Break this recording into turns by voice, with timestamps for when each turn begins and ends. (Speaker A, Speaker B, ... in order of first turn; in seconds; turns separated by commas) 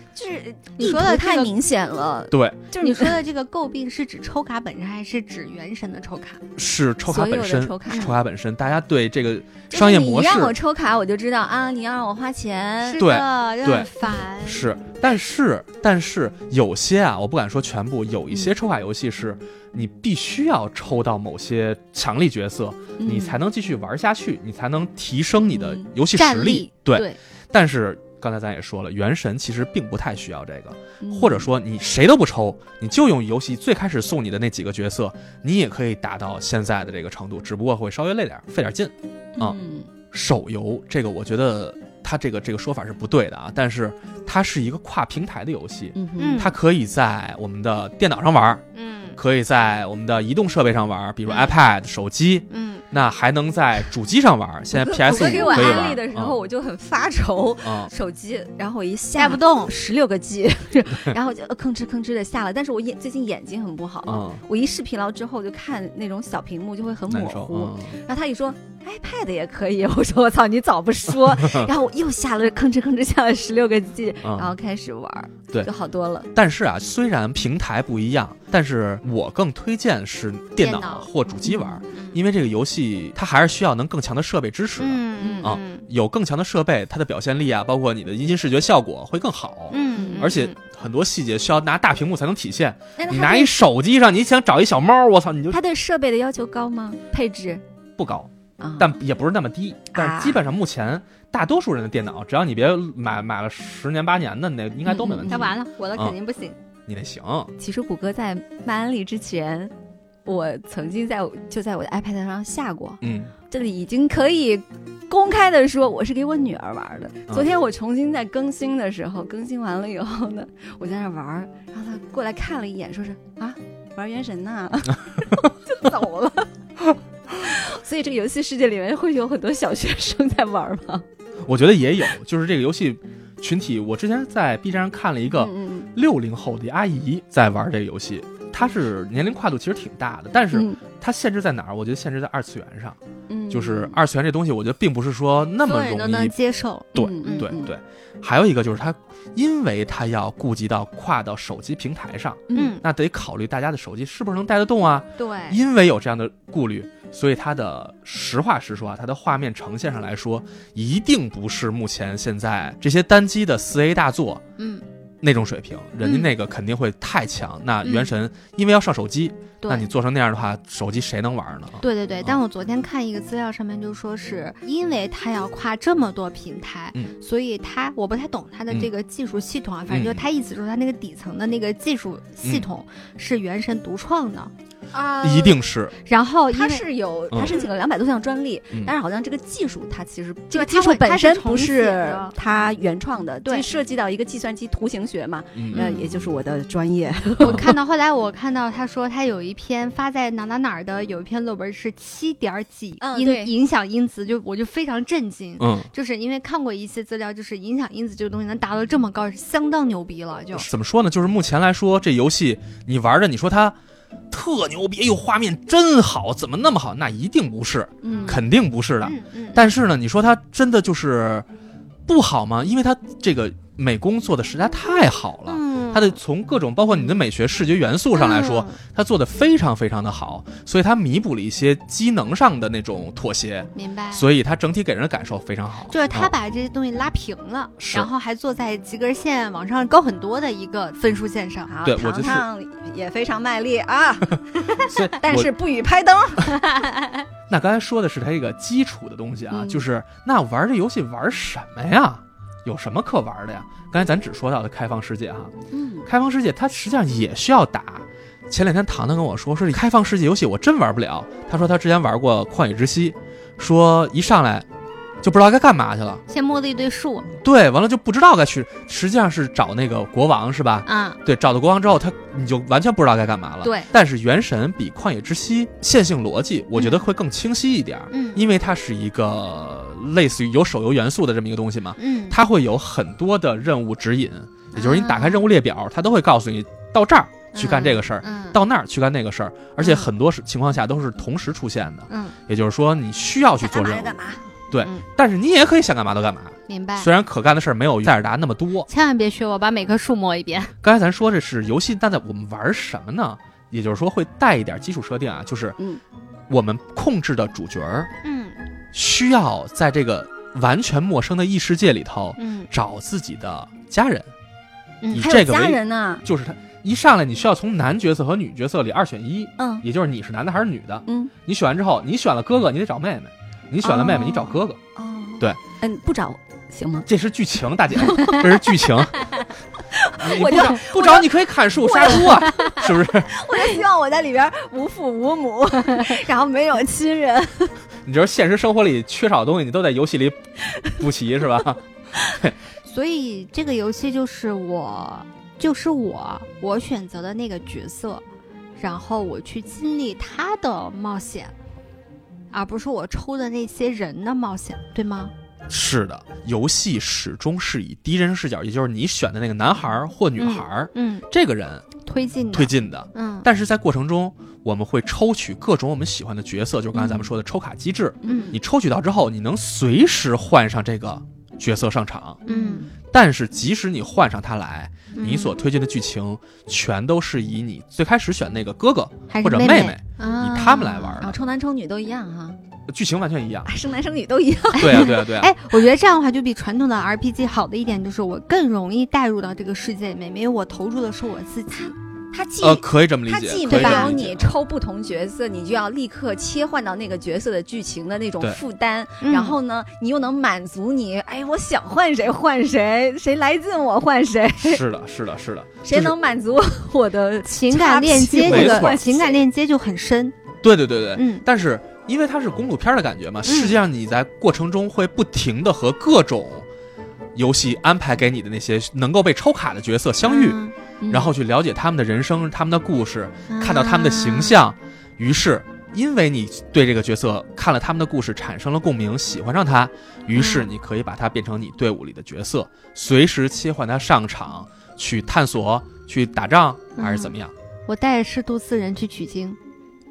Speaker A: 0.1-3.2, Speaker B: 0.8-1.5, Speaker C: 2.3-2.6, Speaker B: 2.8-6.4, Speaker C: 6.5-10.5, Speaker A: 7.0-8.1, Speaker A: 9.7-13.0, Speaker B: 12.8-14.6, Speaker C: 13.0-13.9, Speaker C: 14.4-39.6, Speaker A: 23.0-23.4, Speaker A: 25.4-25.9, Speaker B: 26.1-27.2, Speaker A: 31.0-31.5, Speaker A: 39.4-39.9, Speaker C: 40.1-48.6, Speaker A: 46.0-46.5, Speaker B: 46.2-46.5, Speaker B: 48.7-49.2, Speaker C: 49.2-56.4, Speaker B: 52.5-52.8, Speaker A: 54.7-76.3, Speaker B: 55.1-56.0, Speaker C: 57.6-57.9, Speaker B: 59.2-59.7, Speaker C: 64.0-64.4, Speaker C: 67.1-68.0, Speaker C: 71.4-71.7, Speaker C: 74.2-74.5, Speaker C: 76.3-95.6, Speaker B: 80.6-82.2, Speaker B: 84.8-85.8, Speaker A: 85.2-85.5, Speaker B: 89.7-90.6, Speaker A: 89.9-90.3, Speaker A: 93.0-93.7, Speaker A: 95.5-97.6, Speaker C: 98.0-106.2, Speaker A: 98.6-99.0, Speaker A: 99.9-100.4, Speaker A: 104.8-105.5, Speaker B: 105.3-106.5, Speaker C: 106.9-107.5, Speaker A: 107.6-109.7, Speaker A: 110.2-126.5, Speaker C: 113.0-113.3, Speaker C: 126.8-127.5, Speaker A: 127.4-131.0, Speaker C: 131.4-143.0, Speaker A: 135.3-135.9, Speaker A: 140.5-140.8, Speaker A: 143.3-143.9, Speaker C: 143.5-146.3, Speaker B: 145.6-147.5, Speaker A: 146.9-147.7, Speaker C: 146.9-164.4, Speaker A: 152.5-152.8, Speaker B: 152.5-152.8, Speaker B: 155.2-155.6, Speaker B: 164.6-164.8, Speaker C: 165.2-172.4, Speaker B: 166.0-166.3, Speaker B: 167.8-168.1, Speaker B: 169.6-169.9, Speaker B: 171.8-184.5, Speaker C: 179.9-180.2, Speaker A: 184.9-185.6, Speaker C: 185.2-185.9, Speaker B: 186.0-186.8, Speaker A: 186.5-197.7, Speaker C: 187.3-187.6, Speaker B: 190.5-192.3, Speaker C: 195.6-195.9, Speaker B: 195.7-196.1, Speaker B: 197.4-210.7, Speaker C: 197.4-197.7, Speaker A: 203.0-203.5, Speaker C: 205.6-205.9, Speaker C: 210.5-213.7, Speaker C: 214.3-221.4, Speaker A: 218.0-218.4, Speaker B: 219.0-219.6, Speaker C: 222.1-236.3, Speaker B: 225.5-226.2, Speaker B: 228.1-228.8, Speaker B: 233.7-234.2, Speaker B: 235.9-241.7, Speaker C: 237.8-238.1, Speaker A: 241.7-244.4, Speaker C: 241.8-242.4, Speaker C: 244.8-245.5, Speaker A: 245.2-246.6, Speaker B: 246.4-247.2, Speaker C: 247.5-255.5, Speaker A: 249.5-249.8, Speaker A: 255.7-256.1, Speaker C: 256.1-264.6, Speaker C: 265.2-266.2, Speaker B: 266.3-267.3, Speaker C: 267.4-294.2, Speaker B: 270.9-271.2, Speaker B: 273.6-273.9, Speaker B: 276.8-277.0, Speaker B: 278.1-278.4, Speaker B: 282.0-282.4, Speaker B: 284.7-285.5, Speaker B: 287.5-288.6, Speaker B: 289.8-290.1, Speaker B: 292.1-292.3, Speaker A: 293.6-294.4, Speaker C: 294.7-298.9, Speaker B: 294.8-295.1, Speaker B: 296.7-297.1, Speaker B: 298.9-300.7, Speaker C: 300.8-305.8, Speaker C: 306.5-308.1, Speaker B: 308.2-308.6, Speaker C: 308.9-314.3, Speaker B: 312.4-312.7, Speaker C: 315.1-324.8, Speaker A: 315.1-316.2, Speaker A: 319.6-319.8, Speaker A: 321.1-321.3, Speaker A: 323.8-327.1, Speaker C: 327.1-329.3, Speaker A: 328.0-337.8, Speaker C: 330.2-333.3, Speaker C: 338.0-342.6, Speaker B: 342.9-348.2, Speaker B: 348.8-351.5, Speaker B: 352.5-355.3, Speaker C: 355.7-361.9, Speaker B: 360.4-361.2, Speaker B: 362.0-363.4, Speaker C: 362.5-372.4, Speaker B: 366.9-367.2, Speaker A: 368.2-368.6, Speaker B: 368.2-368.5, Speaker B: 372.5-372.9, Speaker A: 372.5-372.9, Speaker C: 373.1-381.4, Speaker B: 375.1-375.6, Speaker B: 379.3-381.2, Speaker A: 381.2-382.6, Speaker C: 382.9-383.7, Speaker A: 383.6-385.2, Speaker C: 384.8-385.5, Speaker B: 384.8-391.9, Speaker A: 391.7-404.8, Speaker C: 392.6-394.5, Speaker B: 393.7-394.1, Speaker B: 399.2-399.6, Speaker C: 404.6-406.1, Speaker A: 405.8-409.4, Speaker B: 407.4-410.3, Speaker C: 408.4-409.0, Speaker C: 410.6-416.7, Speaker B: 411.1-411.4, Speaker B: 413.4-413.8, Speaker C: 417.3-437.5, Speaker B: 420.2-420.7, Speaker A: 421.0-421.3, Speaker B: 423.5-424.6, Speaker B: 430.3-430.7, Speaker B: 437.0-437.4, Speaker B: 437.9-439.6